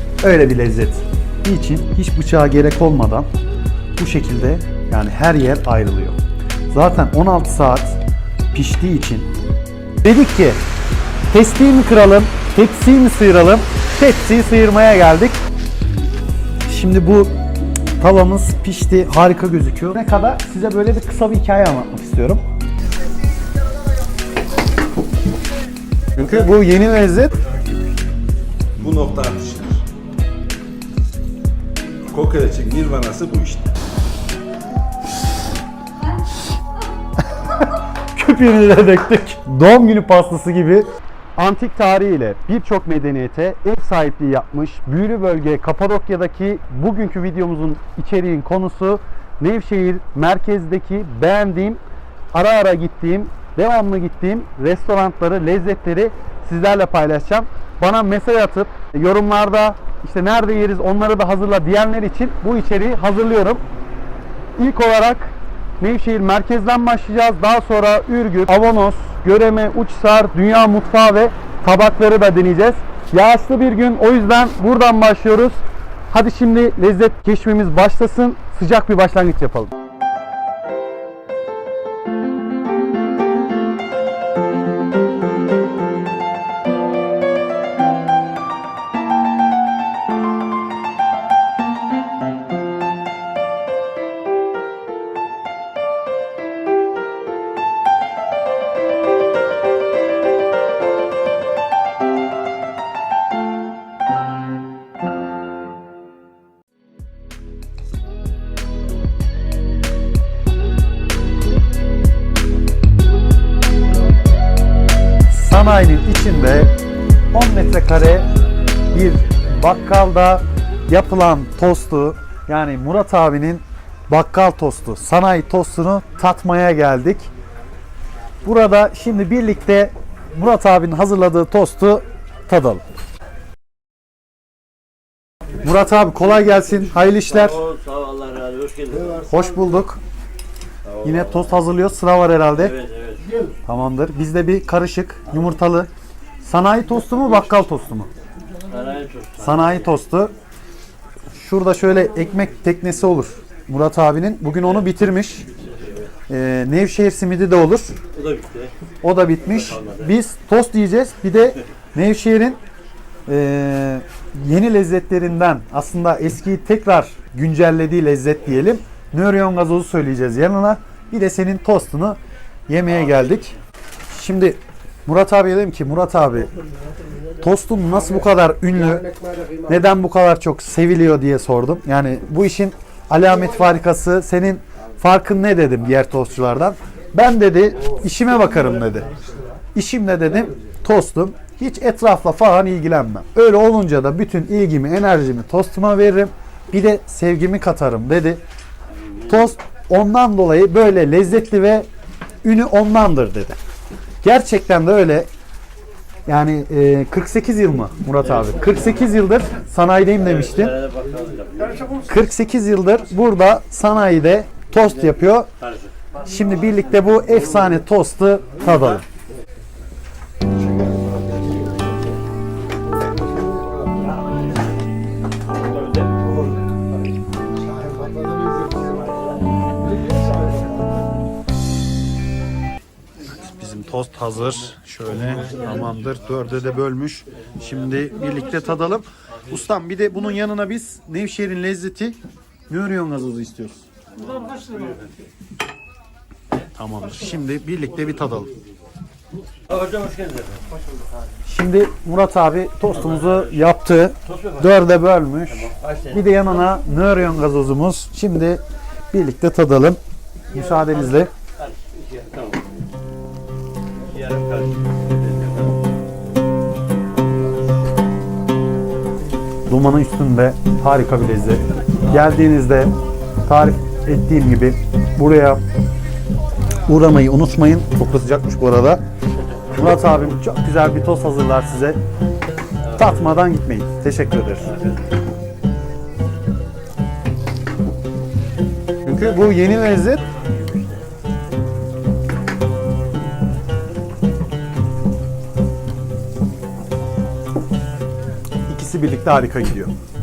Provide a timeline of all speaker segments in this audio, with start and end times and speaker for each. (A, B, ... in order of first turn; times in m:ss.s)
0:00.2-0:03.3 A
0:04.0-0:06.2 A
0:06.7-0:08.0 A
0:08.5-0:09.3 A
0:10.0-0:10.6 A
0:11.3-0:15.4 A
0:16.7-0:17.3 A
0:18.0-0:22.4 A
0:26.2-0:27.4 A
0:28.8-0:29.8 B
0:32.1-0:33.7 B
0:38.1-0:51.8 A
0:52.3-1:03.6 A
1:04.6-1:19.7 A
1:55.3-1:56.7 A
1:57.3-1:58.3 A
1:58.9-2:07.3 A
2:08.4-2:12.8 A
2:15.6-2:17.7 A
2:17.6-2:19.2 C
2:19.2-2:20.0 A
2:21.0-2:22.8 A
2:23.7-2:25.9 A
2:26.4-2:28.1 A
2:28.7-2:29.3 C
2:29.4-2:30.3 A
2:31.3-2:35.5 A
2:36.3-2:38.0 A
2:38.2-2:38.7 C
2:39.0-2:42.6 A
2:43.3-2:53.6 A
2:54.1-2:56.5 A
2:57.4-2:59.1 A
2:59.6-3:09.1 A
3:09.7-3:18.4 A
3:19.3-3:21.9 A
3:22.4-3:23.6 A
3:24.2-3:25.3 A
3:26.3-3:30.9 A
3:31.0-3:31.9 C
3:31.9-3:35.5 A
3:36.2-3:39.0 A
3:53.2-4:03.8 A
4:04.4-4:04.9 C
4:06.7-4:08.5 A
4:09.7-4:10.5 C
4:11.5-4:20.0 A
4:20.5-4:21.3 A
4:22.1-4:22.5 C
4:24.2-4:24.5 C
4:29.7-4:32.9 A
4:33.4-4:35.6 A
4:36.9-4:39.0 A
4:39.7-4:42.0 A
4:42.9-4:44.8 A
4:49.0-4:50.2 A
4:58.7-4:59.9 A